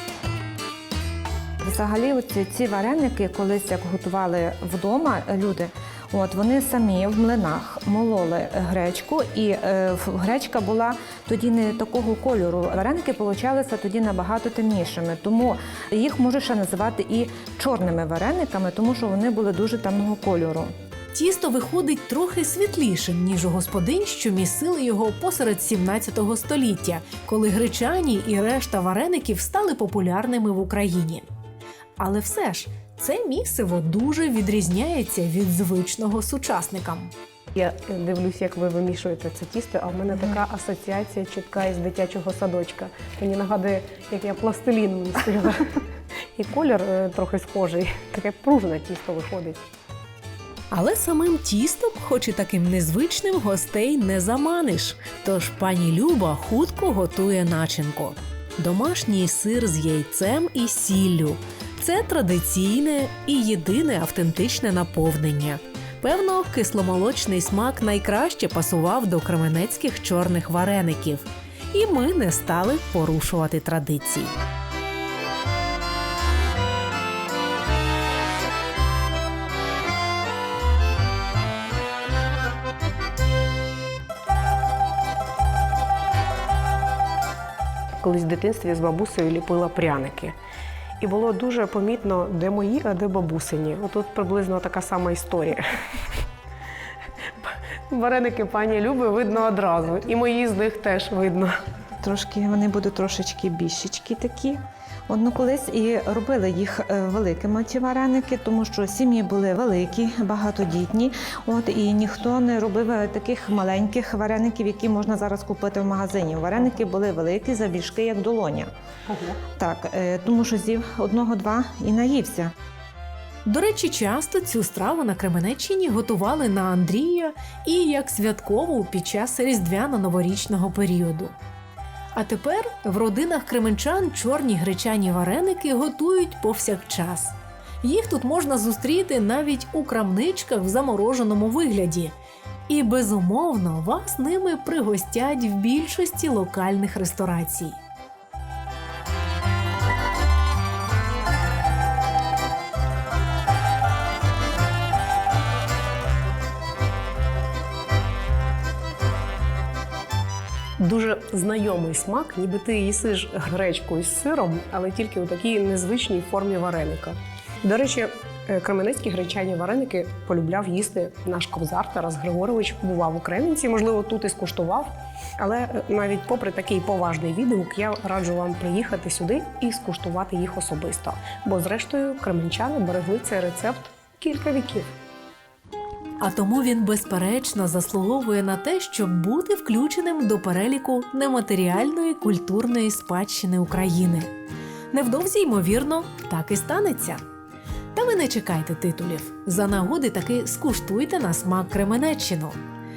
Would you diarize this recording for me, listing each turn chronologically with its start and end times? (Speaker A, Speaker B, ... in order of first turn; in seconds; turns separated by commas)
Speaker A: 1.6-20.7, Speaker B: 21.1-31.2, Speaker B: 32.0-37.1, Speaker C: 37.5-45.8, Speaker C: 46.4-49.6, Speaker B: 50.7-74.4, Speaker C: 88.0-90.3, Speaker C: 91.0-95.6, Speaker C: 97.4-101.5, Speaker A: 102.0-118.7, Speaker C: 119.1-119.4, Speaker A: 119.6-122.5, Speaker B: 123.5-131.3, Speaker B: 132.1-142.1, Speaker B: 142.7-147.8, Speaker C: 160.8-184.9, Speaker B: 186.2-194.3, Speaker B: 194.9-197.2, Speaker B: 197.9-202.6